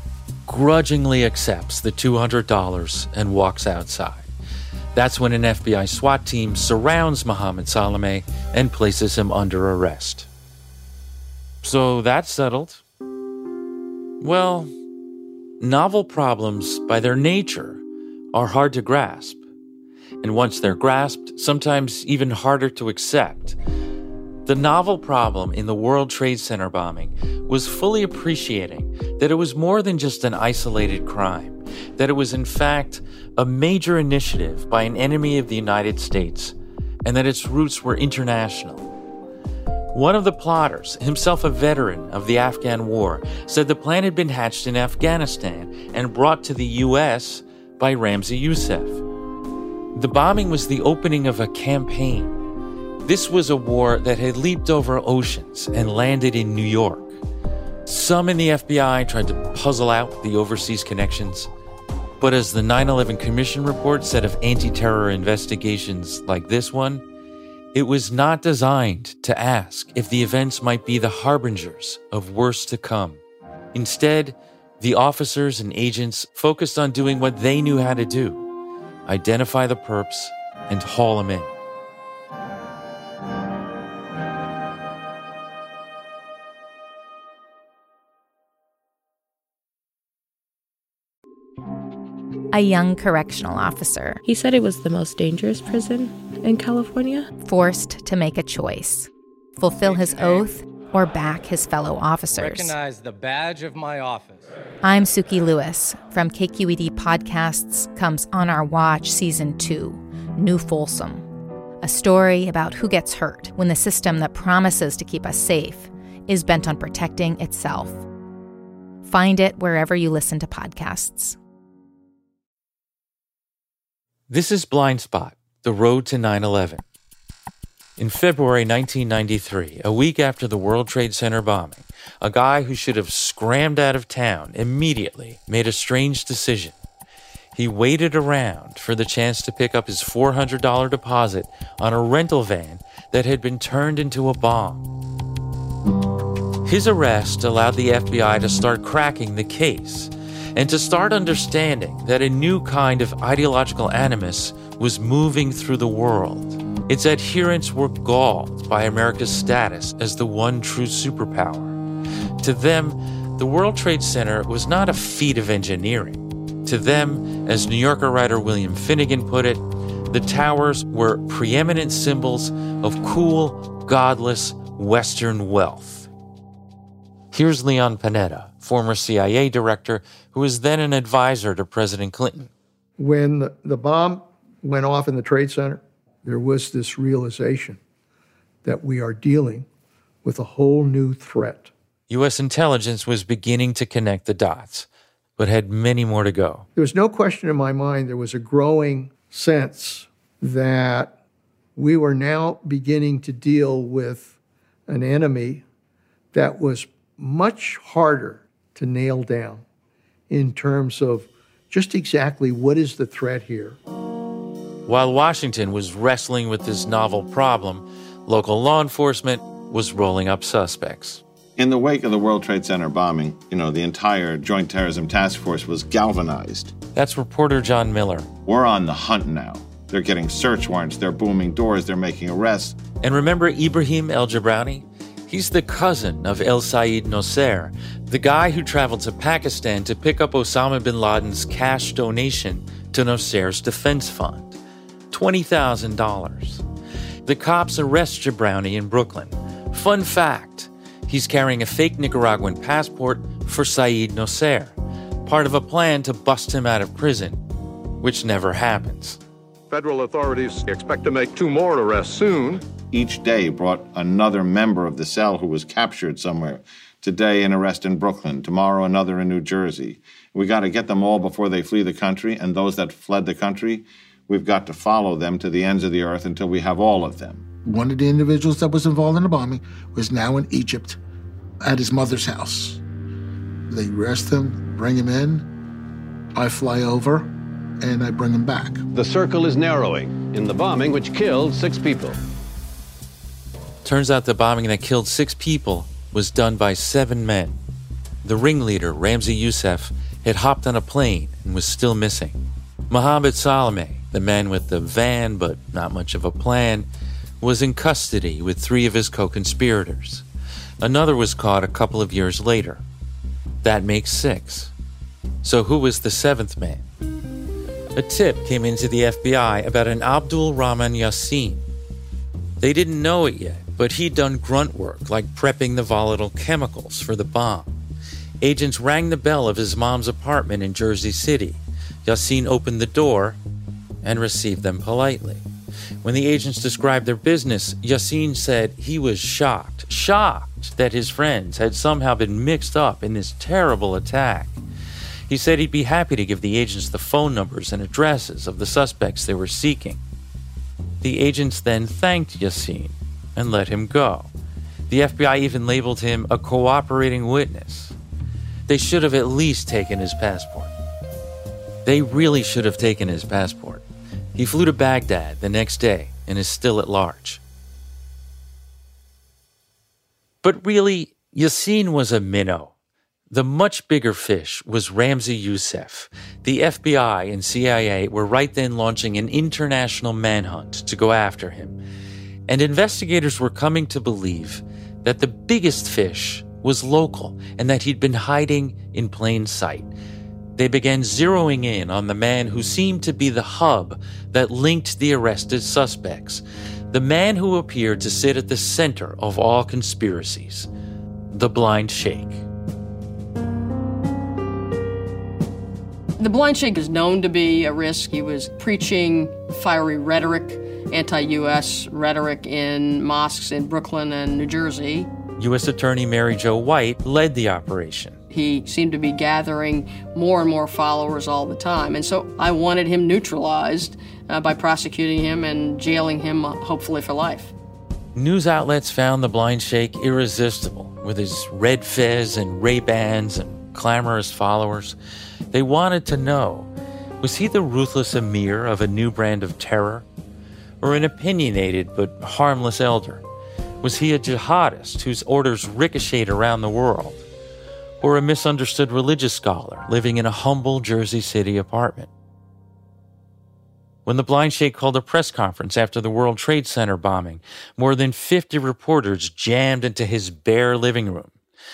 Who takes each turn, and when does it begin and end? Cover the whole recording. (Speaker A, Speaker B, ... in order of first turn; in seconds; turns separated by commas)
Speaker A: 0.5-4.3, Speaker A: 5.0-10.3, Speaker A: 11.6-12.8, Speaker A: 14.2-14.7, Speaker A: 15.6-17.8, Speaker A: 18.3-19.4, Speaker A: 20.2-23.6, Speaker A: 24.5-38.9, Speaker A: 39.9-49.0, Speaker A: 50.0-52.4, Speaker A: 53.0-57.2, Speaker A: 57.9-61.5, Speaker A: 62.2-67.0, Speaker A: 67.7-73.2, Speaker A: 73.7-78.5, Speaker A: 79.1-81.5, Speaker B: 92.5-94.2, Speaker C: 94.2-97.3, Speaker B: 97.4-102.7, Speaker D: 99.8-100.5, Speaker D: 102.3-104.5, Speaker B: 104.8-111.2, Speaker B: 111.8-118.0, Speaker B: 119.0-121.4, Speaker A: 124.3-126.8, Speaker A: 128.0-136.8, Speaker A: 137.5-144.9, Speaker A: 146.7-161.8, Speaker A: 162.4-176.1, Speaker A: 177.3-182.5, Speaker E: 183.0-187.8, Speaker E: 188.6-189.7, Speaker E: 190.2-191.7, Speaker A: 192.1-194.9, Speaker A: 195.4-196.7, Speaker E: 196.8-201.2, Speaker E: 201.8-204.3, Speaker E: 204.9-205.6, Speaker E: 206.3-209.6, Speaker E: 210.3-213.8, Speaker A: 214.9-221.2, Speaker F: 221.6-226.7, Speaker A: 226.9-228.3, Speaker F: 228.5-232.8, Speaker A: 233.0-244.6, Speaker A: 245.1-246.6, Speaker A: 247.3-257.4, Speaker A: 258.0-259.2, Speaker G: 259.7-262.6, Speaker F: 262.9-277.5, Speaker H: 277.6-281.0, Speaker H: 281.6-282.8, Speaker H: 283.7-285.5, Speaker H: 286.3-288.8, Speaker I: 288.9-292.2, Speaker A: 293.8-297.6, Speaker A: 298.2-306.9, Speaker A: 307.4-310.2, Speaker A: 310.8-312.8, Speaker A: 313.6-314.7, Speaker A: 315.4-316.9, Speaker A: 318.0-321.7, Speaker A: 322.6-327.8, Speaker A: 328.4-333.4, Speaker A: 334.0-335.4, Speaker A: 336.0-344.6, Speaker A: 345.3-350.0, Speaker A: 351.0-354.3, Speaker A: 354.9-358.0, Speaker A: 358.7-360.7, Speaker A: 361.9-367.4, Speaker A: 370.4-372.7, Speaker A: 373.3-381.8, Speaker A: 382.5-389.9, Speaker A: 390.6-400.7, Speaker A: 401.3-402.4, Speaker J: 406.2-415.1, Speaker A: 415.4-418.2, Speaker J: 418.3-427.5, Speaker A: 428.1-435.0, Speaker A: 435.5-436.7, Speaker A: 437.2-440.1, Speaker A: 440.8-443.2, Speaker A: 443.8-447.2, Speaker A: 448.0-452.1, Speaker A: 454.1-461.4